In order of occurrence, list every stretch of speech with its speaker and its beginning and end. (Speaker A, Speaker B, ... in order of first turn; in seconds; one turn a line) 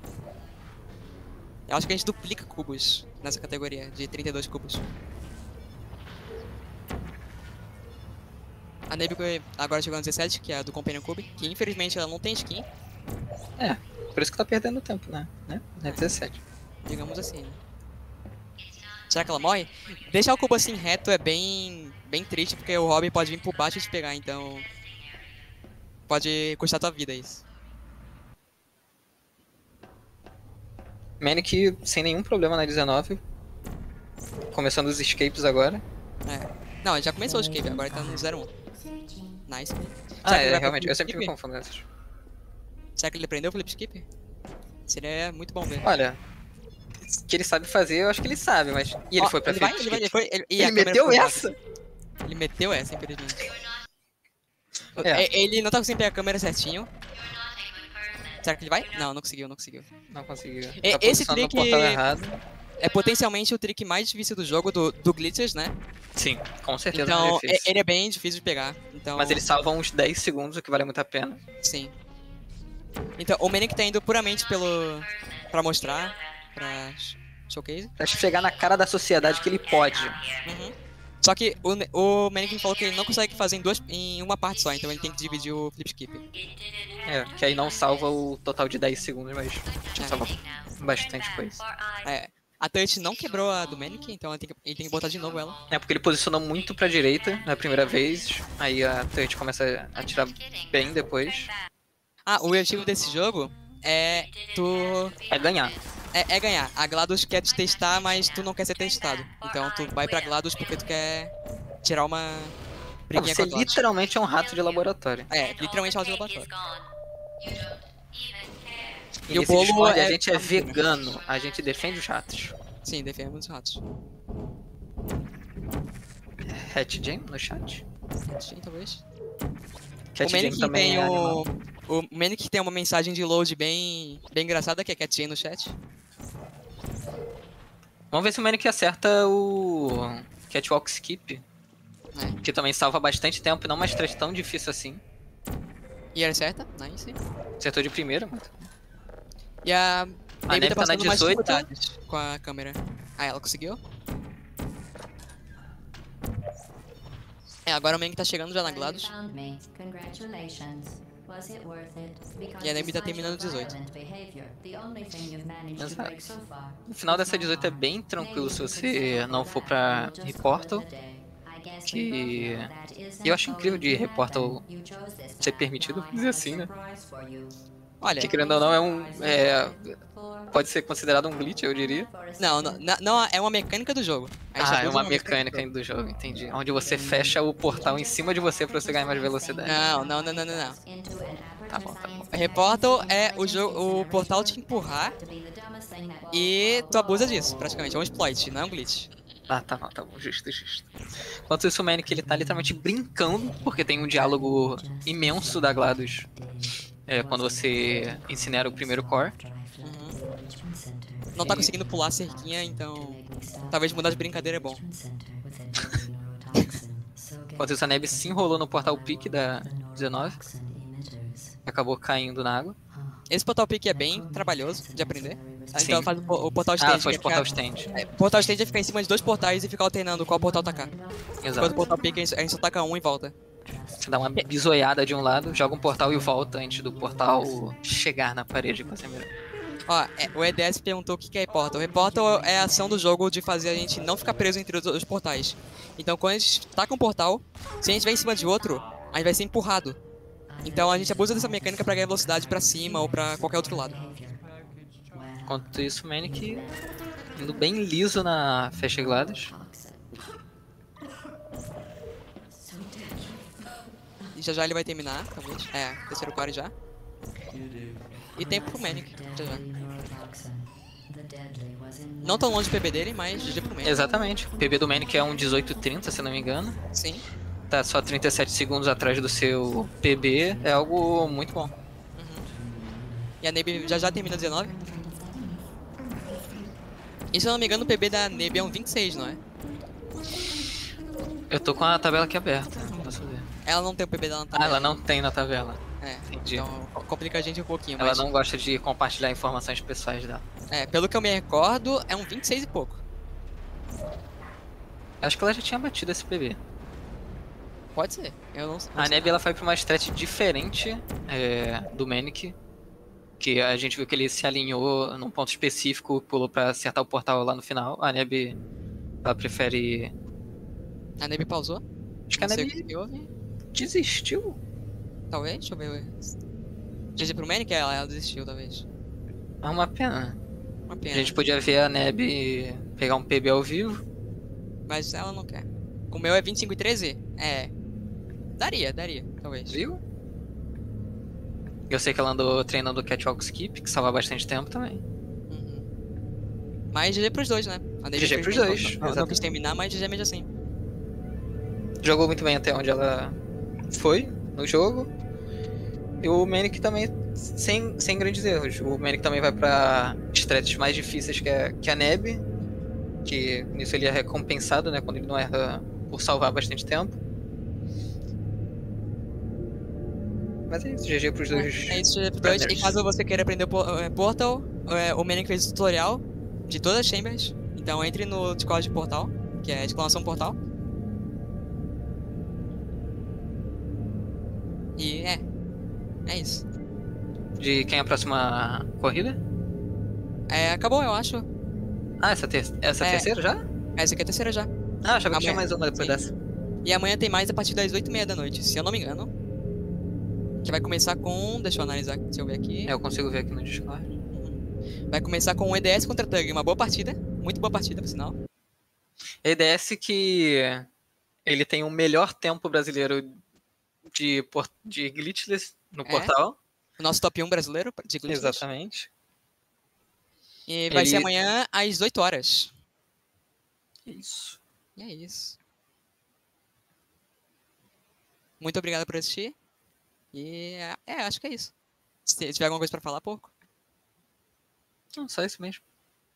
Speaker A: 1.7-4.8
Speaker A: 8.9-12.7
Speaker B: 13.6-16.4
Speaker A: 16.9-17.6
Speaker A: 19.1-24.7
Speaker A: 26.1-27.4
Speaker B: 31.2-33.2
Speaker B: 34.5-35.8
Speaker A: 36.2-38.5
Speaker C: 37.2-39.4
Speaker A: 39.5-41.3
Speaker B: 40.2-41.8
Speaker A: 43.0-44.0
Speaker A: 44.9-45.9
Speaker B: 45.8-46.2
Speaker B: 47.0-51.5
Speaker A: 49.2-51.5
Speaker A: 52.2-53.4
Speaker A: 55.0-56.9
Speaker B: 55.0-55.3
Speaker A: 58.4-59.9
Speaker B: 60.1-62.4
Speaker A: 60.8-62.0
Speaker A: 62.8-65.7
Speaker B: 66.2-67.7
Speaker A: 66.9-69.4
Speaker B: 69.2-71.4
Speaker A: 71.6-71.9
Speaker A: 73.2-77.9
Speaker B: 78.0-80.2
Speaker A: 80.4-86.2
Speaker B: 87.0-91.6
Speaker A: 92.0-95.6
Speaker B: 95.7-101.5
Speaker A: 102.2-105.1
Speaker B: 105.3-105.8
Speaker A: 106.1-111.3
Speaker A: 111.8-112.5
Speaker A: 113.1-113.8
Speaker B: 113.1-115.3
Speaker A: 115.3-116.5
Speaker B: 119.3-122.6
Speaker A: 119.3-120.8
Speaker A: 122.8-123.8
Speaker B: 126.5-127.8
Speaker A: 128.2-129.0
Speaker B: 130.1-131.4
Speaker A: 130.2-135.7
Speaker B: 138.1-141.4
Speaker A: 142.1-142.4
Speaker B: 142.4-145.0
Speaker A: 146.1-147.2
Speaker B: 147.6-148.7
Speaker A: 149.6-153.8
Speaker B: 150.5-151.7
Speaker A: 157.7-159.1
Speaker C: 158.6-177.6
Speaker A: 162.6-163.7
Speaker B: 165.8-166.2
Speaker B: 166.9-170.8
Speaker B: 171.8-172.7
Speaker B: 173.2-174.6
Speaker B: 175.4-176.7
Speaker A: 178.0-178.3
Speaker C: 178.2-180.5
Speaker B: 178.2-179.9
Speaker B: 180.5-182.1
Speaker C: 181.7-182.9
Speaker A: 182.4-185.6
Speaker B: 184.6-189.8
Speaker C: 186.7-197.5
Speaker A: 189.6-190.8
Speaker B: 191.7-192.2
Speaker A: 192.3-195.1
Speaker A: 196.3-199.1
Speaker B: 199.5-200.9
Speaker B: 201.5-206.3
Speaker C: 203.6-221.6
Speaker B: 207.1-209.3
Speaker A: 209.8-210.2
Speaker A: 211.3-213.2
Speaker B: 211.4-211.7
Speaker A: 213.7-214.8
Speaker B: 217.6-220.4
Speaker B: 221.7-222.8
Speaker C: 222.9-223.2
Speaker A: 223.3-230.9
Speaker C: 223.9-226.7
Speaker B: 225.7-226.1
Speaker B: 226.8-227.9
Speaker C: 227.3-228.8
Speaker C: 230.2-231.1
Speaker B: 231.4-231.8
Speaker A: 231.6-233.3
Speaker C: 233.7-234.0
Speaker B: 234.0-239.3
Speaker A: 239.9-250.0
Speaker C: 242.3-243.0
Speaker C: 250.5-254.4
Speaker A: 250.6-253.9
Speaker C: 255.1-255.7
Speaker B: 255.5-256.6
Speaker C: 256.2-256.8
Speaker B: 257.4-259.5
Speaker C: 259.0-260.0
Speaker C: 262.6-263.3
Speaker A: 264.3-266.7
Speaker A: 268.4-269.6
Speaker C: 268.4-272.5
Speaker A: 272.2-274.0
Speaker B: 273.8-276.8
Speaker A: 276.9-277.2
Speaker B: 277.7-281.7
Speaker A: 282.2-282.4
Speaker A: 283.4-284.7
Speaker A: 287.3-289.4
Speaker B: 291.5-293.5
Speaker A: 293.6-295.0
Speaker B: 294.5-296.7
Speaker A: 296.0-298.3
Speaker B: 298.0-300.4
Speaker A: 300.7-303.0
Speaker B: 305.2-306.6
Speaker A: 307.9-309.3
Speaker B: 308.9-312.5
Speaker B: 313.4-318.6
Speaker B: 319.2-320.1
Speaker A: 321.2-321.8
Speaker B: 322.3-322.8
Speaker A: 322.3-323.3
Speaker B: 323.7-324.6
Speaker A: 325.3-326.2
Speaker A: 327.1-328.8
Speaker B: 329.6-330.4
Speaker A: 330.9-331.4
Speaker B: 331.1-334.0
Speaker A: 334.9-337.7
Speaker A: 338.6-339.8
Speaker B: 339.7-340.0
Speaker B: 341.9-345.0
Speaker A: 345.5-345.9
Speaker A: 346.9-350.5
Speaker B: 348.1-349.4
Speaker B: 352.0-353.4
Speaker B: 353.9-355.1
Speaker B: 356.2-362.4
Speaker B: 363.2-367.2
Speaker B: 370.7-373.0
Speaker A: 371.5-380.6
Speaker A: 385.0-385.4
Speaker A: 386.2-386.6
Speaker B: 387.6-389.4
Speaker A: 390.5-391.4
Speaker B: 392.2-393.6
Speaker A: 393.0-393.3
Speaker A: 393.9-394.7
Speaker B: 395.0-396.3
Speaker A: 395.3-396.2
Speaker A: 396.8-399.3
Speaker A: 400.6-402.9
Speaker B: 402.9-404.1
Speaker A: 404.3-404.6
Speaker A: 405.1-408.4
Speaker B: 409.4-410.9
Speaker B: 411.4-413.4
Speaker B: 414.1-416.6
Speaker A: 416.1-416.3
Speaker A: 417.0-418.6
Speaker B: 418.3-419.1
Speaker A: 420.7-422.7
Speaker B: 420.9-421.3
Speaker B: 424.1-424.6
Speaker A: 425.0-425.6
Speaker A: 428.6-429.5
Speaker A: 430.3-431.7
Speaker A: 432.2-433.5
Speaker B: 435.1-435.8